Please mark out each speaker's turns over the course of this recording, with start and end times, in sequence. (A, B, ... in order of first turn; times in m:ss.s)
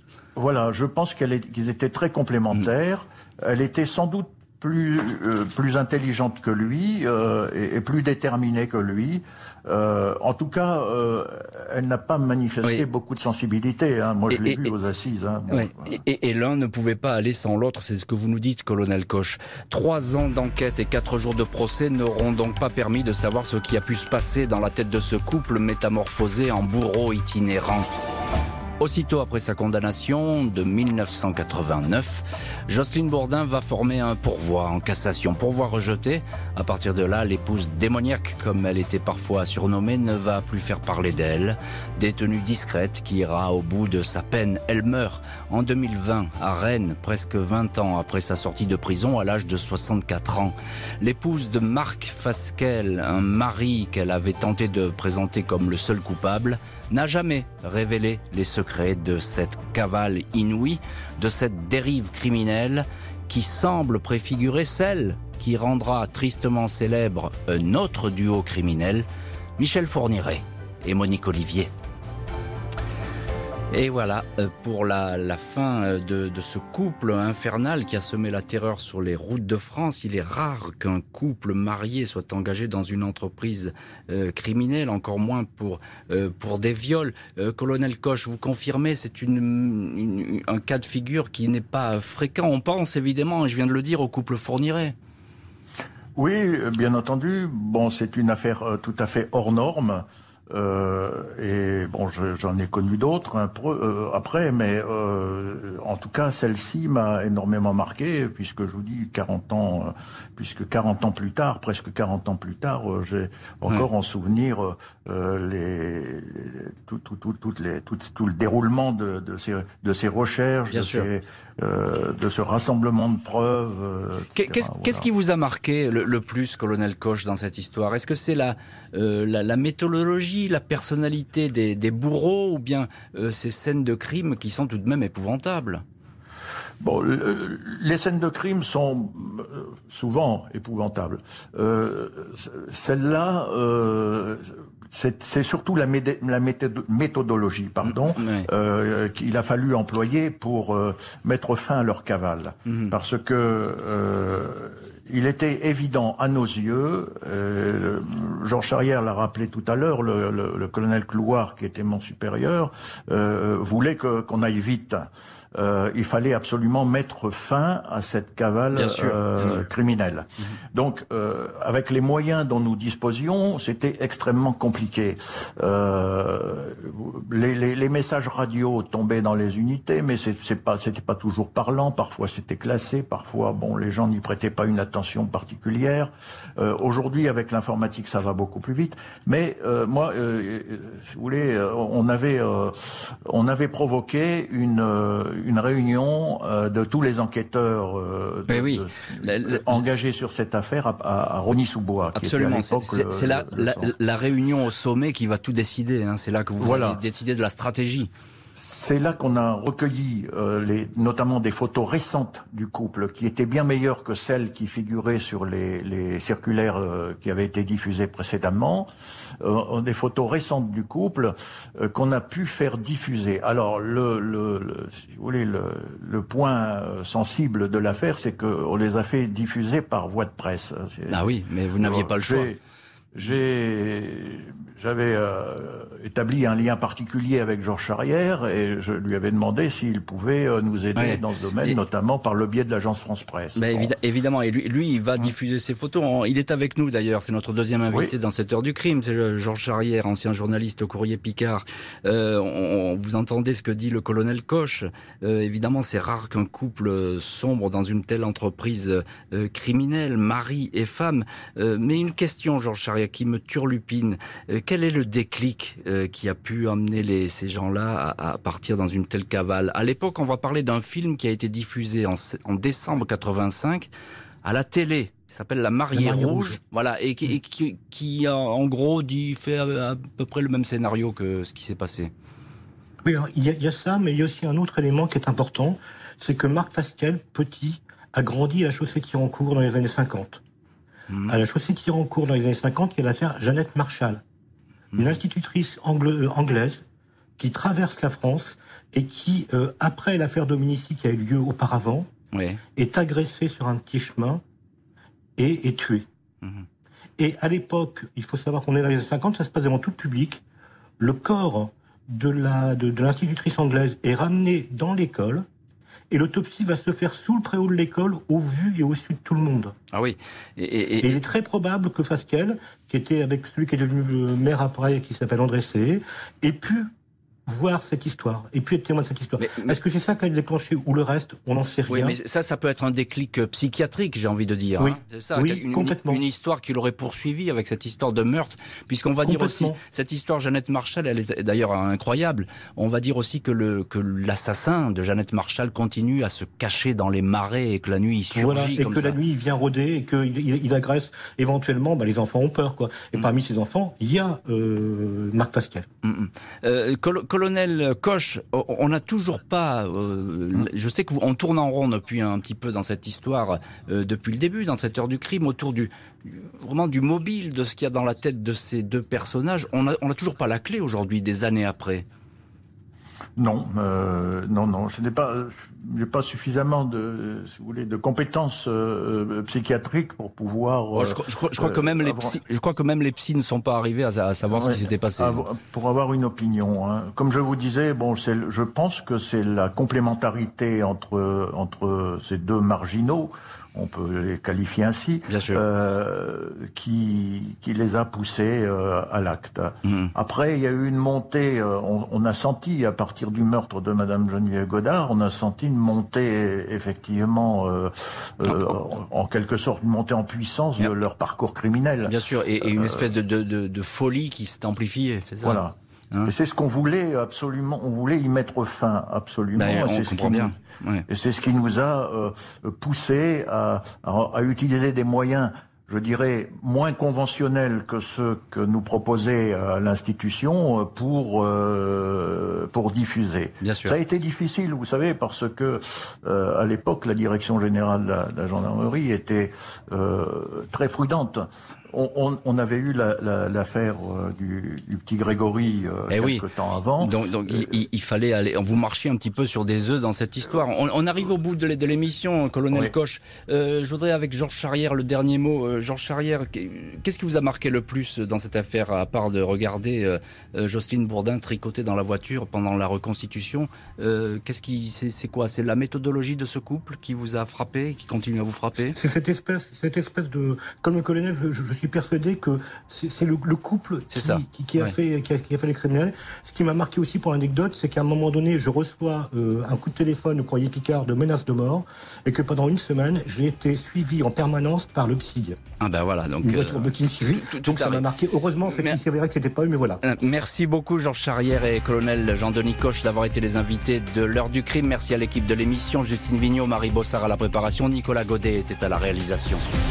0:00.4-0:16.0 A
0:14.3-0:14.7 B
0:15.5-0:27.9 B
0:28.8-1:09.1 B
1:09.6-1:11.7 B
1:13.7-1:35.0 B
1:36.2-2:05.1 A
2:00.7-2:01.1 B
2:04.4-2:15.8 B
2:16.8-3:23.9 A
2:27.8-2:28.5 B
2:32.7-2:33.0 B
2:48.7-2:49.6 B
3:18.5-3:19.8 B
3:22.1-3:28.1 B
3:26.6-3:27.0 A
3:28.6-3:38.9 A
3:39.4-3:52.6 A
3:51.1-3:52.5 B
3:53.2-4:03.9 A
4:01.0-4:01.8 B
4:03.6-4:33.9 B
4:34.4-4:42.1 B
4:35.9-4:36.6 C
4:43.0-4:50.4 C
4:51.1-4:51.4 B
4:51.3-4:54.2 C
4:55.0-4:56.8 C
4:57.4-5:02.1 C
5:02.3-5:02.6 B
5:02.8-5:04.4 C
5:05.4-5:06.1 C
5:07.2-5:10.4 C
5:11.0-5:15.5 C
5:16.1-5:19.8 C
5:19.9-5:21.2 B
5:21.0-5:26.9 C
5:27.5-5:32.2 C
5:29.4-5:29.8 B
5:31.9-5:49.2 B
5:34.8-5:36.2 C
5:39.2-5:39.8 C
5:48.3-5:55.9 C
5:56.0-6:12.0 B
6:13.4-6:22.4 A
6:20.9-6:25.4 B
6:24.5-6:53.1 A
6:35.3-6:35.6 B
6:52.0-6:55.6 B
6:55.4-7:27.8 A
6:59.6-7:01.1 B
7:13.6-7:14.0 B
7:26.1-7:26.4 B
7:27.0-7:49.0 B
7:48.8-8:05.6 C
7:54.1-7:54.9 B
8:05.8-8:08.1 B
8:06.4-8:10.0 C
8:08.7-8:09.0 B
8:10.0-8:19.6 B